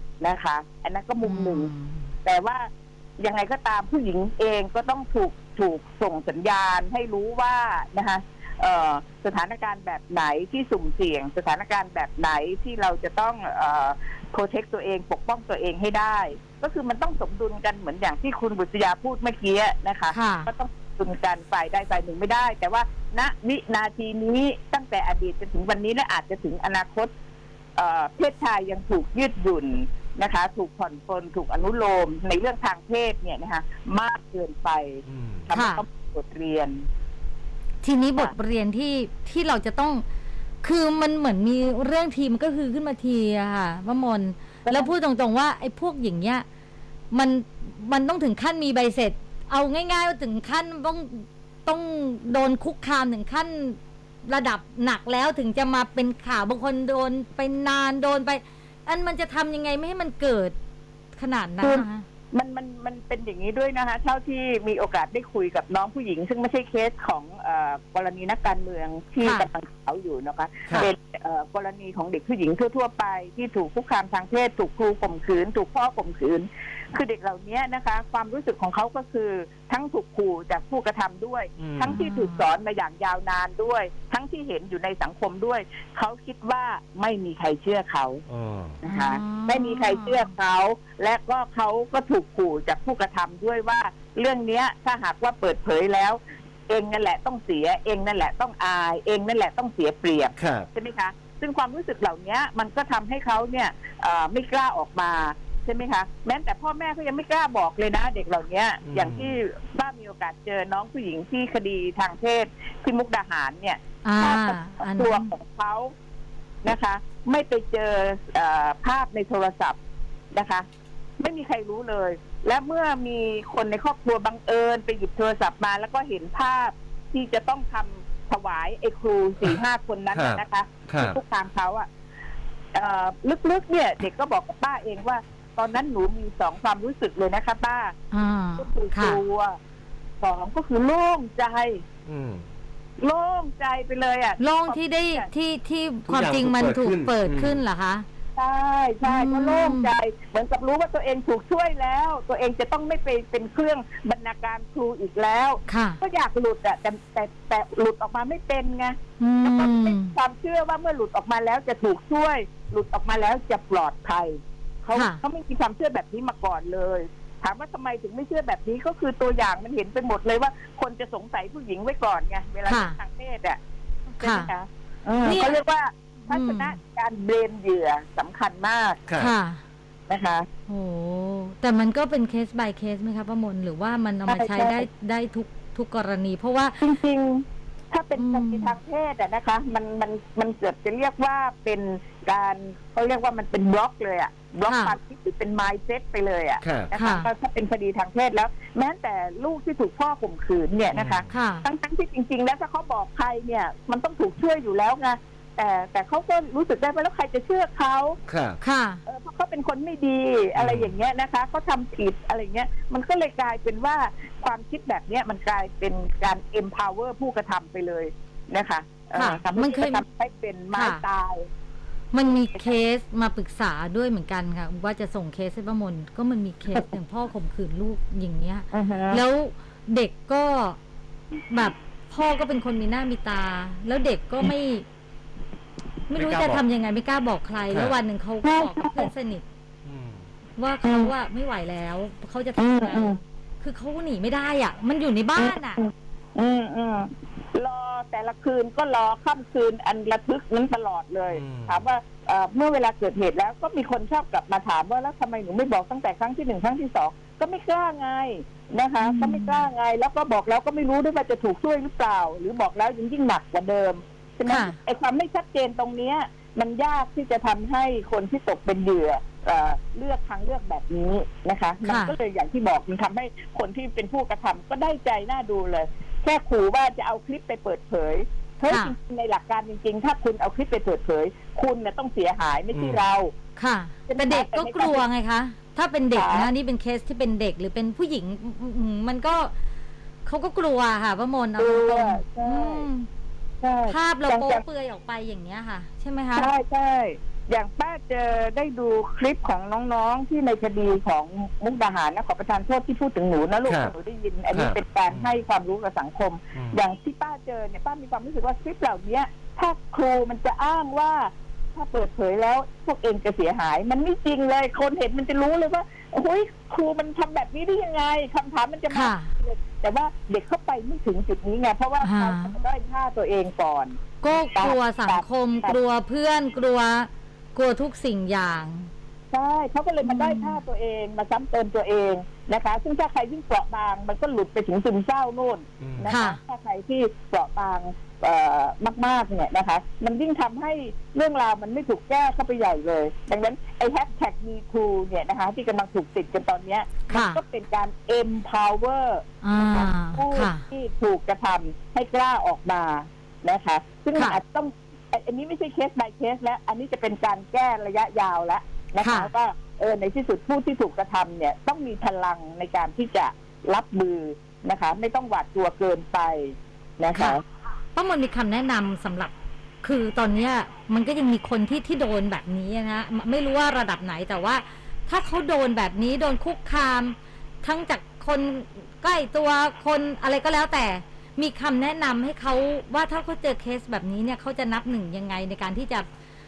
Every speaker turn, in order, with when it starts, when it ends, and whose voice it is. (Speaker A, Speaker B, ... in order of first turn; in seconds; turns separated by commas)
Speaker A: 0.2-1.7, Speaker B: 1.2-2.1, Speaker A: 2.2-27.1, Speaker B: 20.1-20.5, Speaker A: 27.8-36.9, Speaker C: 35.1-35.5, Speaker B: 35.5-35.8, Speaker B: 37.8-40.0, Speaker B: 40.6-46.5, Speaker A: 44.7-44.9, Speaker B: 47.1-60.5, Speaker B: 61.1-62.0, Speaker A: 61.6-88.2, Speaker B: 69.2-69.5, Speaker C: 81.6-82.0, Speaker B: 81.9-82.5, Speaker C: 88.3-88.8, Speaker A: 88.8-115.9, Speaker B: 88.8-90.3, Speaker C: 100.4-100.7, Speaker C: 108.8-109.4, Speaker B: 114.0-115.3, Speaker A: 116.6-119.8, Speaker A: 120.3-120.7, Speaker A: 121.2-131.9, Speaker C: 130.1-131.2, Speaker A: 132.7-138.0, Speaker B: 138.1-139.2, Speaker A: 138.6-139.6, Speaker A: 140.2-141.8, Speaker C: 142.1-142.5, Speaker A: 143.0-145.3, Speaker B: 144.4-148.1, Speaker C: 146.1-147.6, Speaker A: 148.4-173.6, Speaker B: 149.0-149.9, Speaker B: 155.7-156.0, Speaker B: 159.2-160.1, Speaker B: 164.9-165.2, Speaker B: 172.7-173.0, Speaker A: 174.2-179.0, Speaker B: 174.2-174.5, Speaker B: 175.2-175.6, Speaker B: 176.3-176.7, Speaker C: 179.1-179.3, Speaker B: 179.2-179.6, Speaker A: 180.1-180.5, Speaker B: 180.7-186.8, Speaker A: 184.3-184.9, Speaker A: 186.8-208.2, Speaker B: 188.2-188.8, Speaker B: 194.7-194.9, Speaker C: 196.6-196.9, Speaker B: 197.0-197.3, Speaker C: 200.9-201.3, Speaker B: 201.3-201.6, Speaker C: 208.3-208.6, Speaker B: 208.6-209.0, Speaker A: 209.1-221.5, Speaker C: 210.6-210.9, Speaker B: 219.2-220.0, Speaker B: 220.7-221.0, Speaker B: 222.1-230.8, Speaker A: 228.7-229.2, Speaker B: 231.5-234.8, Speaker B: 236.1-239.4, Speaker C: 236.2-236.6, Speaker C: 237.7-238.0, Speaker A: 238.4-239.1, Speaker C: 239.8-240.3, Speaker B: 240.6-245.8, Speaker A: 240.8-241.1, Speaker A: 242.6-243.2, Speaker A: 245.4-283.3, Speaker C: 251.3-251.9, Speaker B: 259.0-259.6, Speaker B: 264.5-264.8, Speaker B: 271.8-272.2, Speaker B: 278.7-278.9, Speaker C: 282.7-283.1, Speaker B: 283.6-289.5, Speaker A: 284.1-285.1, Speaker A: 286.1-286.5, Speaker B: 290.2-293.1, Speaker A: 291.6-292.9, Speaker A: 293.6-294.6, Speaker B: 293.9-296.5, Speaker A: 296.4-325.8, Speaker C: 303.7-303.9, Speaker C: 304.5-305.4, Speaker B: 318.9-319.3, Speaker B: 322.0-322.6, Speaker B: 324.2-328.9, Speaker A: 329.3-367.4, Speaker B: 330.0-330.6, Speaker C: 335.8-336.1, Speaker B: 336.1-336.4, Speaker B: 347.1-347.4, Speaker B: 349.4-350.6, Speaker B: 359.0-359.3, Speaker B: 367.1-367.4, Speaker B: 367.9-369.3, Speaker B: 369.8-386.1